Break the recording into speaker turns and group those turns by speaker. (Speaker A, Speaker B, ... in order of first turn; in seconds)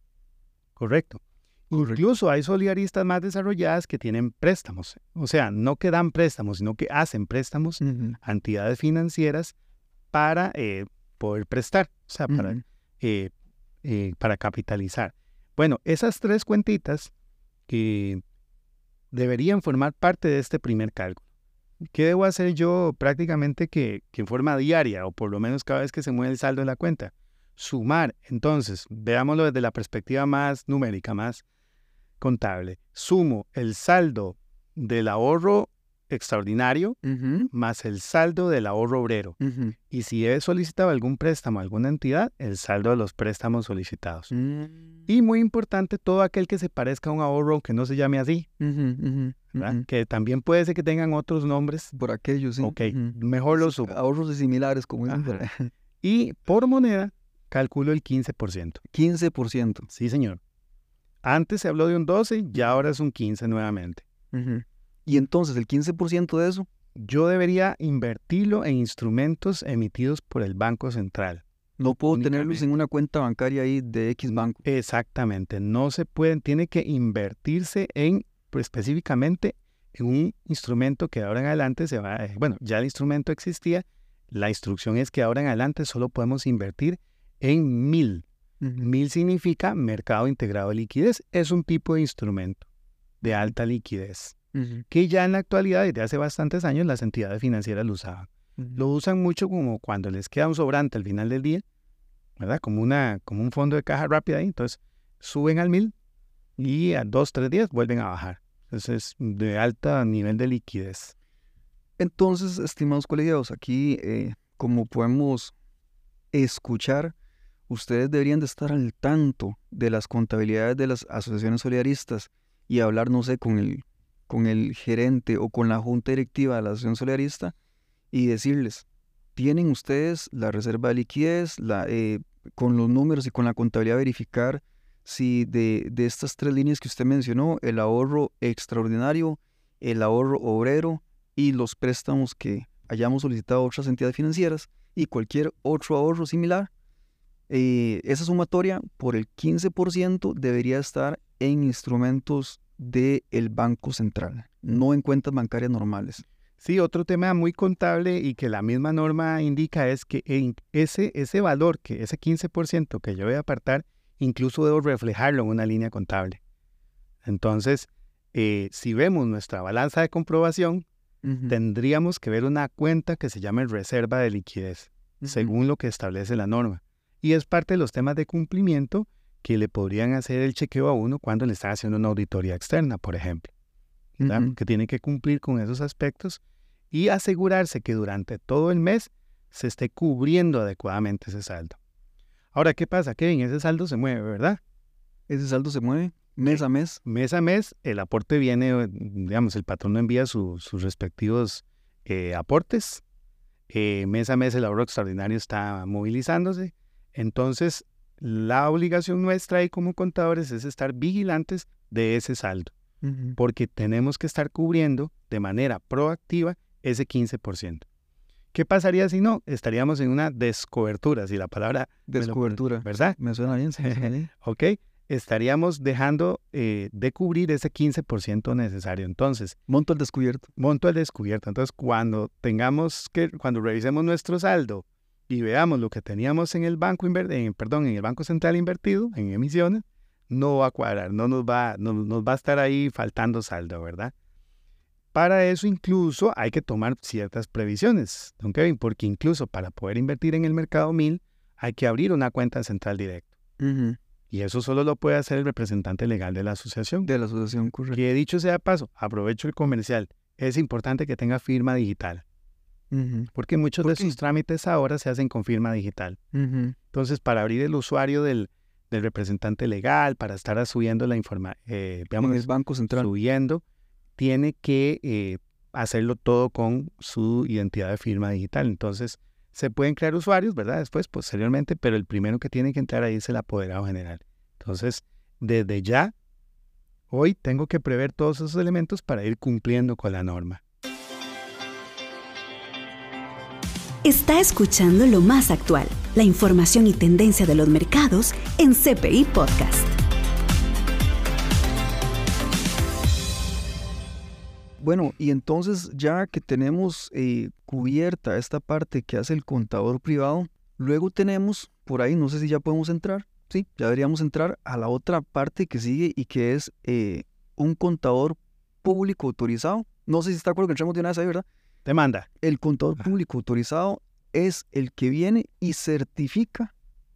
Speaker A: 0.8-9.5, 10.1-13.3, 13.8-17.1, 17.7-18.2, 19.1-21.2, 21.9-31.4, 32.2-37.0, 37.5-39.4, 39.9-44.3, 45.1-48.5, 49.5-51.9, 52.6-53.9, 56.0-58.8, 59.9-60.4, 61.2-64.0, 67.0-71.4, 72.1-72.6, 74.6-88.2, 88.8-92.7, 93.2-94.4, 94.9-101.6, 102.4-105.9, 106.6-111.1, 156.6-166.4, 167.2-170.9, 171.5-183.5, 184.2-186.4, 186.9-191.8, 192.5-194.6, 196.5-203.0, 203.7-212.7, 213.4-217.8, 218.5-223.2, 223.8-229.6, 230.6-244.1, 245.1-253.3, 254.3-257.1, 257.9-262.2, 263.4-266.2, 266.9-273.6, 274.2-286.1, 287.1-290.6, 321.9-322.3
Speaker B: 1.7-2.0, 7.8-8.2, 12.3-12.6, 37.0-37.5, 39.4-39.8, 44.3-45.0, 48.6-49.8, 51.9-55.7, 58.9-59.9, 64.3-66.7, 71.8-74.6, 88.6-88.9, 94.5-94.8, 112.0-115.5, 116.3-117.1, 117.7-127.5, 128.1-128.8, 129.4-146.7, 147.5-156.2, 171.2-171.6, 175.2-175.5, 184.2-184.6, 195.3-197.0, 213.0-213.4, 222.1-224.3, 229.7-230.5, 253.6-254.0, 257.1-258.0, 262.9-264.2, 266.3-266.8, 272.2-273.1, 304.8-321.4, 322.4-326.7
Speaker C: 294.0-299.9